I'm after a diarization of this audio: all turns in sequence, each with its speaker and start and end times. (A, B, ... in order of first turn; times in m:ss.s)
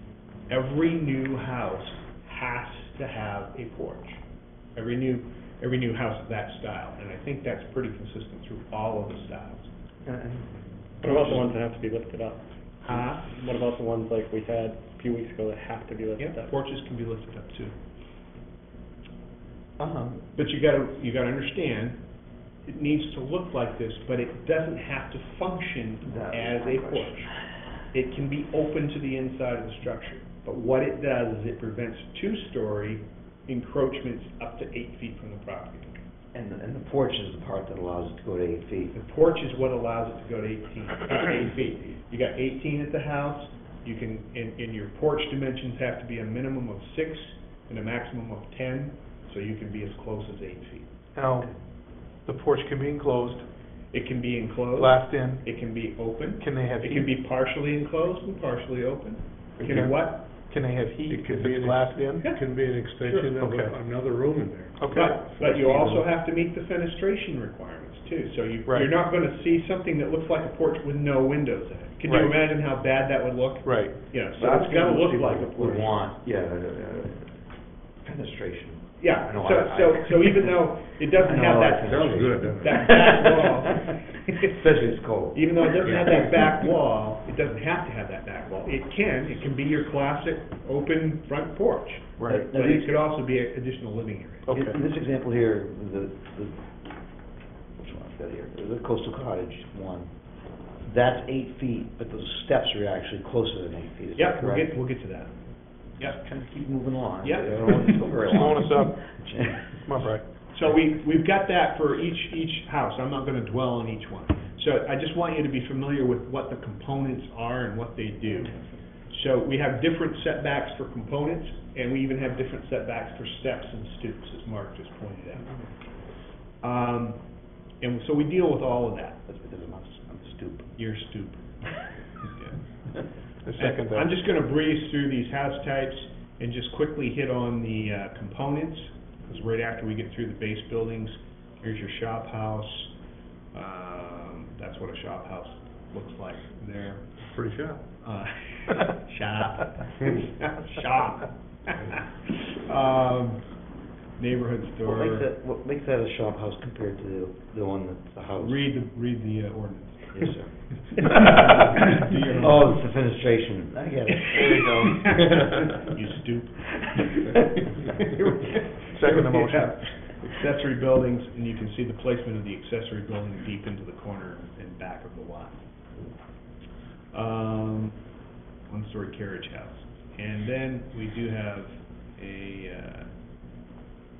0:00.5-0:04.2 A
0:04.8-0:09.7 A
0:10.1-0:11.4 B
0:11.0-0:16.5 C
0:12.8-0:13.3 A
0:16.2-0:17.8 A
0:19.8-0:20.3 B
0:20.4-0:22.0 A
0:22.6-0:36.0 A
0:26.1-0:27.3 B
0:36.3-0:39.0 B
0:38.9-0:50.9 A
0:51.2-0:51.5 D
0:52.1-0:53.5 D
0:53.9-1:00.3 A
0:54.8-0:55.6 D
0:56.4-0:57.1 D
0:59.7-1:02.3 D
1:01.1-1:06.0 E
1:02.2-1:03.3 A
1:03.1-1:03.8 D
1:04.8-1:05.2 D
1:04.9-1:15.9 A
1:05.4-1:05.8 B
1:12.0-1:12.4 D
1:13.6-1:14.1 D
1:14.4-1:23.9 B
1:19.0-1:34.5 A
1:21.9-1:22.9 E
1:24.4-1:26.4 B
1:32.3-1:32.9 B
1:34.5-1:34.8 D
1:34.5-1:36.8 B
1:37.8-1:40.2 B
1:40.8-1:44.8 B
1:44.2-1:45.4 A
1:46.0-1:49.8 B
1:47.2-1:48.0 A
1:48.2-1:49.2 D
1:49.8-1:50.2 D
1:50.5-2:05.6 A
2:06.6-2:09.2 A
2:09.3-2:10.7 B
2:10.8-2:12.6 A
2:13.4-2:14.1 D
2:13.6-2:22.9 A
2:23.5-2:27.1 A
2:27.3-2:27.8 E
2:28.0-2:33.6 A
2:34.2-2:35.3 A
2:34.8-2:38.7 B
2:38.4-2:40.3 A
2:40.2-2:45.5 B
2:41.0-2:42.7 A
2:44.2-2:55.6 A
2:46.8-2:47.4 B
2:48.9-2:49.9 D
2:57.1-2:58.0 A
2:58.7-3:03.1 A